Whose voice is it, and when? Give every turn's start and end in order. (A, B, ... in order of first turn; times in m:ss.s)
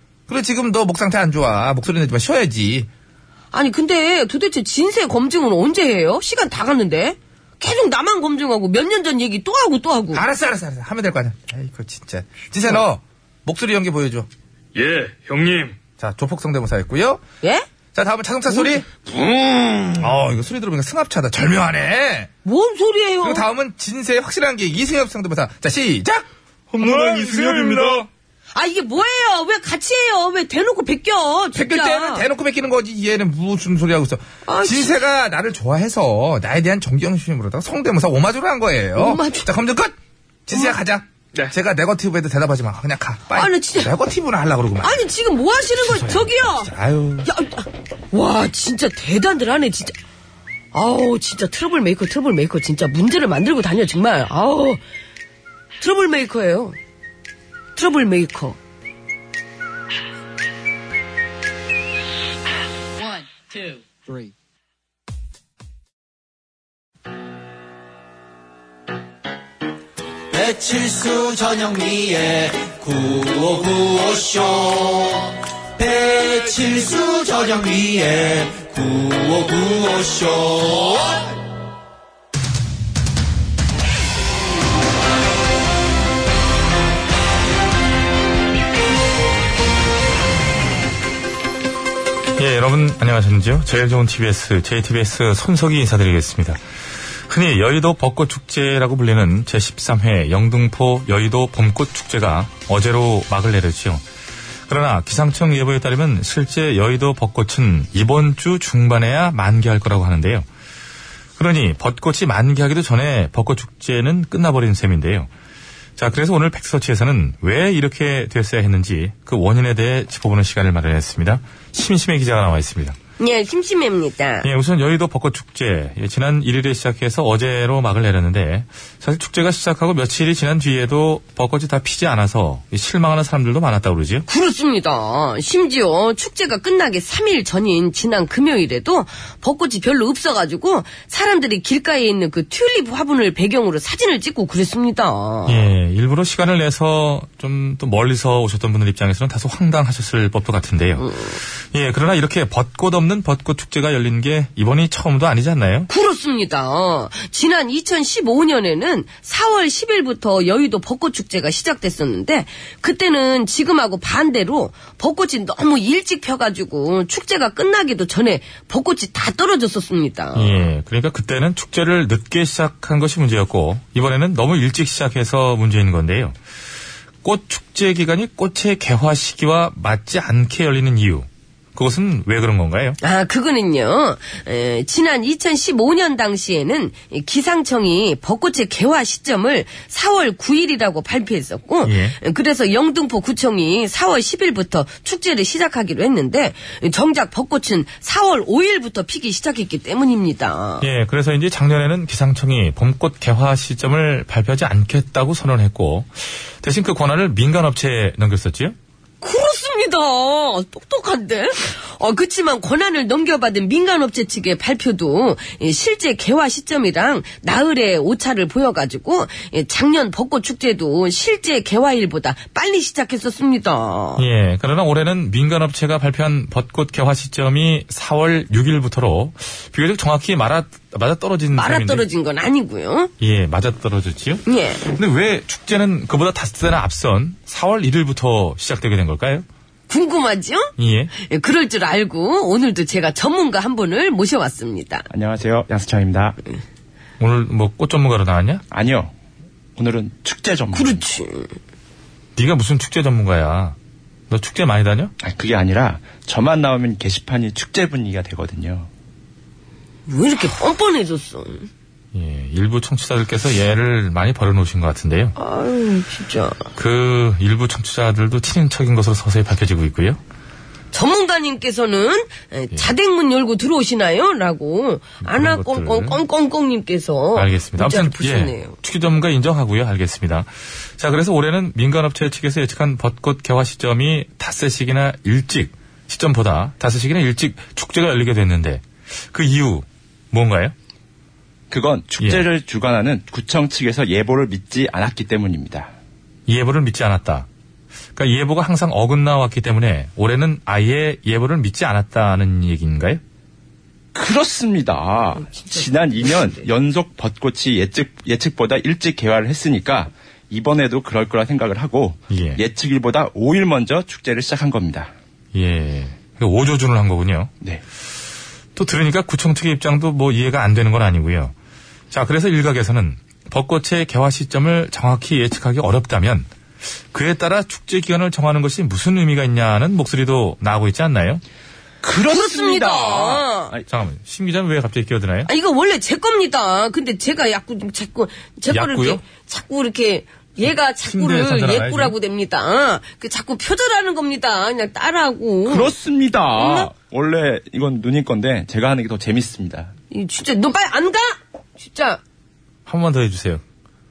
0:00.3-0:02.8 A
0:03.5-0:10.2 B
0:10.4-0:14.2 A
0:14.7-0:15.8 C
0:18.0-0:18.8 A
0:18.9-0:20.1 C
0:21.1-0:22.3 A
0:22.4-0:23.4 B
0:23.5-0:26.2 A
0:26.7-0:28.0 D
0:26.8-0:28.0 A
0:26.8-0:28.0 C
0:28.5-0:32.3 B
0:32.0-0:39.9 A
0:34.4-0:35.0 B
0:38.9-0:39.5 B
0:40.5-0:41.0 A
0:41.6-0:43.5 A
0:43.3-0:43.9 B
0:44.1-0:44.7 A
0:44.8-0:46.7 B
0:47.2-0:50.0 B
0:50.7-0:54.8 B
0:55.8-0:56.8 B
0:57.8-0:58.6 B
1:10.3-1:21.2 E
1:32.4-1:36.6 D
1:37.3-1:44.0 D
1:44.7-1:50.4 D
1:51.4-1:55.3 D
1:56.0-2:03.0 D
2:03.2-2:04.5 B
2:04.4-2:14.2 D
2:14.3-2:25.7 B
2:25.4-2:35.9 D
2:31.0-2:31.4 B
2:35.9-2:50.6 B
2:50.3-2:56.4 D
2:57.2-3:03.0 D
3:03.0-3:20.8 B
3:11.8-3:12.2 D
3:20.8-3:28.7 D
3:29.2-3:44.2 B
3:44.2-3:52.0 D
3:51.5-3:53.1 B
3:53.2-3:59.4 D
3:54.4-3:54.8 B
3:59.9-4:05.0 B
4:00.8-4:01.1 D
4:05.1-4:06.4 F
4:07.2-4:08.6 D
4:08.7-4:09.1 F
4:09.8-4:11.0 F
4:10.7-4:11.5 B
4:12.4-4:13.8 D
4:14.3-4:15.1 D
4:15.2-4:18.9 F
4:20.1-4:21.7 B
4:22.1-4:25.3 D
4:25.4-4:26.7 B
4:26.8-4:30.2 D
4:30.9-4:38.7 B
4:35.2-4:36.2 D
4:37.3-4:50.7 D
4:51.7-4:55.9 F
4:52.2-4:52.4 D
4:56.5-4:57.5 D
4:58.2-5:03.2 D
5:04.1-5:15.1 F
5:12.3-5:12.6 D
5:15.5-5:17.5 D
5:18.8-5:21.5 D
5:22.1-5:26.5 D
5:27.1-5:31.4 D
5:32.0-5:33.8 F
5:32.2-5:33.7 B
5:33.9-5:35.5 D
5:35.5-5:45.9 B
5:38.7-5:39.2 D
5:41.0-5:42.1 D
5:45.6-5:49.9 F
5:46.6-5:46.9 B
5:50.1-5:52.2 B
5:52.8-5:53.6 D